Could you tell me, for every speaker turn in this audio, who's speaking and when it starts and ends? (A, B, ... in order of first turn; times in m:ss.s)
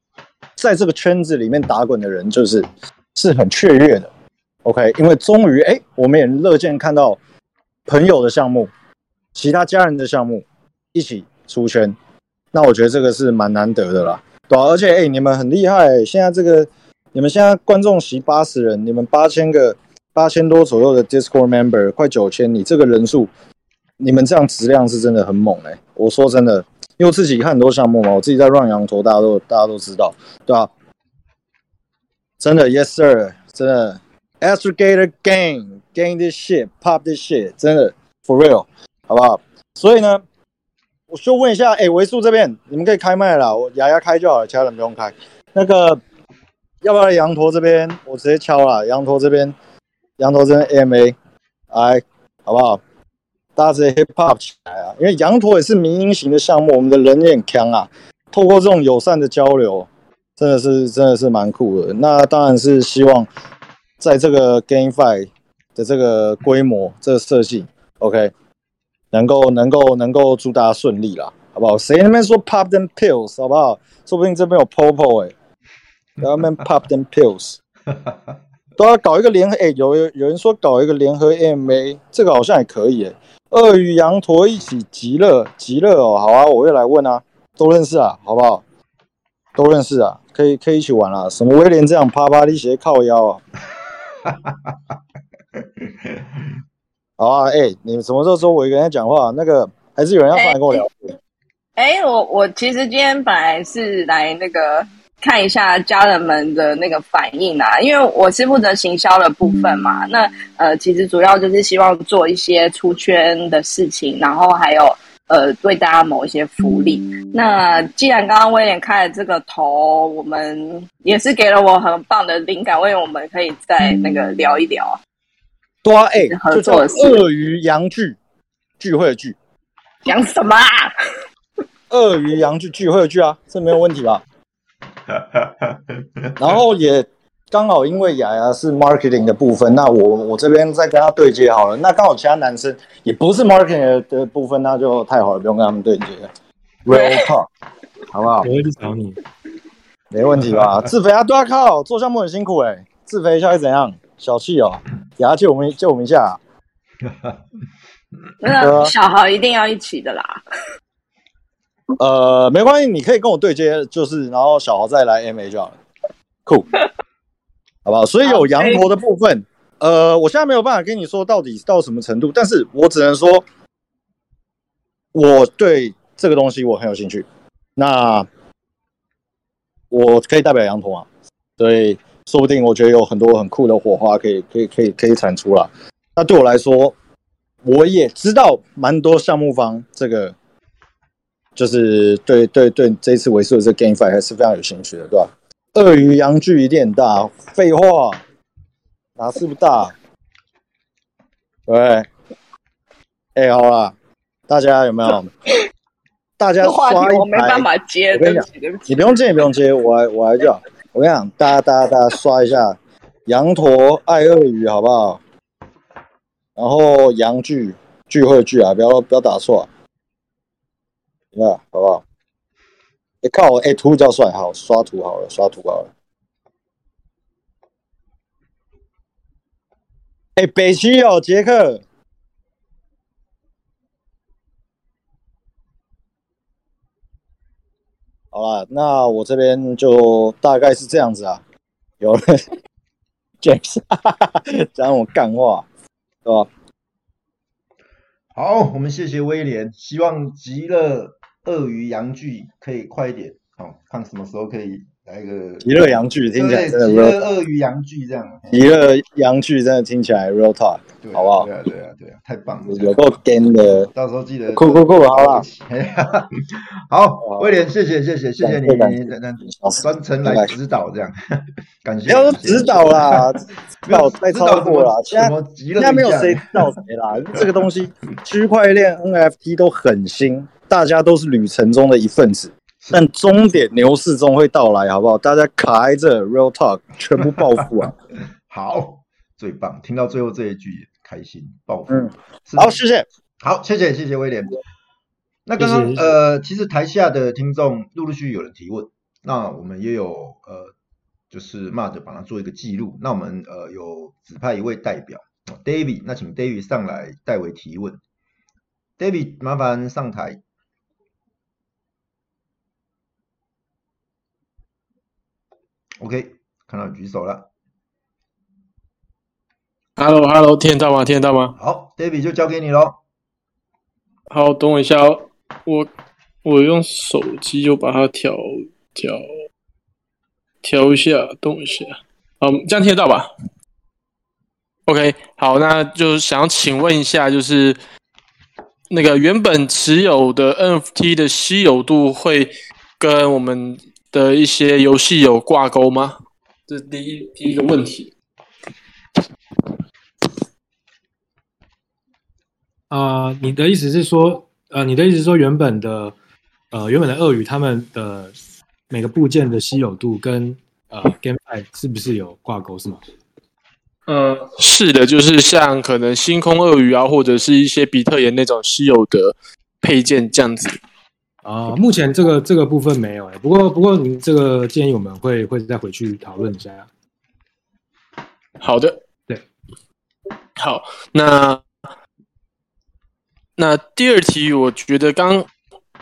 0:00.6-0:04.1 A
0:04.6-0:07.2 A
0:07.9-0:08.7 A
0:09.4-0:12.0 A
0:12.5-0:23.3 A
0:24.0-0:30.7 A
0:32.4-0:40.2 A
0:41.1-0:46.0 A
0:46.8-0:49.5 A
0:50.2-0:51.2 A
0:51.7-0:52.8 A
0:53.6-1:03.3 A
1:04.0-1:08.3 A
1:09.1-1:15.3 A
1:16.2-1:17.6 A
1:18.8-1:28.6 A
1:29.6-1:33.4 A
1:34.3-1:34.8 B
1:35.8-1:36.2 B
1:37.2-1:41.1 A
1:40.3-1:40.8 C
1:41.8-2:05.0 C
2:05.8-2:08.2 A
2:06.3-2:07.2 C
2:08.8-2:09.4 A
2:10.0-2:10.9 C
2:11.9-2:14.2 A
2:15.2-2:15.8 B
2:16.4-2:26.3 A
2:26.8-2:27.5 A
2:26.9-2:27.3 C
2:28.1-2:28.5 A
2:28.4-2:29.2 D
2:30.1-2:36.4 A
2:30.5-2:30.8 B
2:37.1-2:37.4 B
2:38.4-2:40.4 C
2:38.6-2:38.9 A
2:42.0-2:45.8 A
2:47.8-2:53.4 A
2:48.2-2:49.0 C
2:55.1-2:57.2 A
2:57.8-2:58.3 A
2:59.9-3:01.1 A
3:01.6-3:07.0 A
3:07.6-3:10.3 A
3:11.6-3:18.2 A
3:19.2-3:19.9 A
3:21.7-3:22.1 A
3:23.4-3:24.0 A
3:24.5-3:25.3 A
3:26.4-3:35.2 A
3:26.6-3:29.5 C
3:36.6-3:39.7 A
3:41.3-3:42.0 A
3:43.2-3:45.9 A
3:50.4-3:51.8 A
3:58.3-4:01.4 A
4:02.0-4:02.4 A
4:03.4-4:05.7 A
4:08.3-4:18.6 B
4:15.6-4:17.2 A
4:18.5-4:21.5 A
4:21.0-4:23.2 B
4:22.7-4:23.9 A
4:23.9-4:31.2 B
4:24.5-4:25.4 A
4:28.4-4:30.5 A
4:31.8-4:33.3 B
4:32.1-4:47.9 A
4:33.9-4:36.7 B
4:37.3-4:37.6 B
4:48.5-4:52.8 B
4:51.9-4:53.1 A
4:53.4-4:54.6 B
4:55.5-5:00.7 B
4:55.6-4:56.1 D
5:01.3-5:08.0 B
5:09.0-5:10.4 B
5:16.0-5:17.5 B
5:20.0-5:21.6 E
5:21.6-5:23.0 B
5:24.3-5:25.9 E
5:26.4-5:29.2 E
5:30.6-5:33.3 E
5:34.9-5:37.8 E
5:38.9-5:46.2 E
5:46.7-5:48.1 E
5:52.9-5:56.2 D
5:56.7-5:58.4 D
5:58.9-6:03.0 D
6:04.1-6:10.8 E
6:11.4-6:16.9 D
6:18.6-6:19.0 E
6:20.6-6:21.6 E
6:23.6-6:25.5 E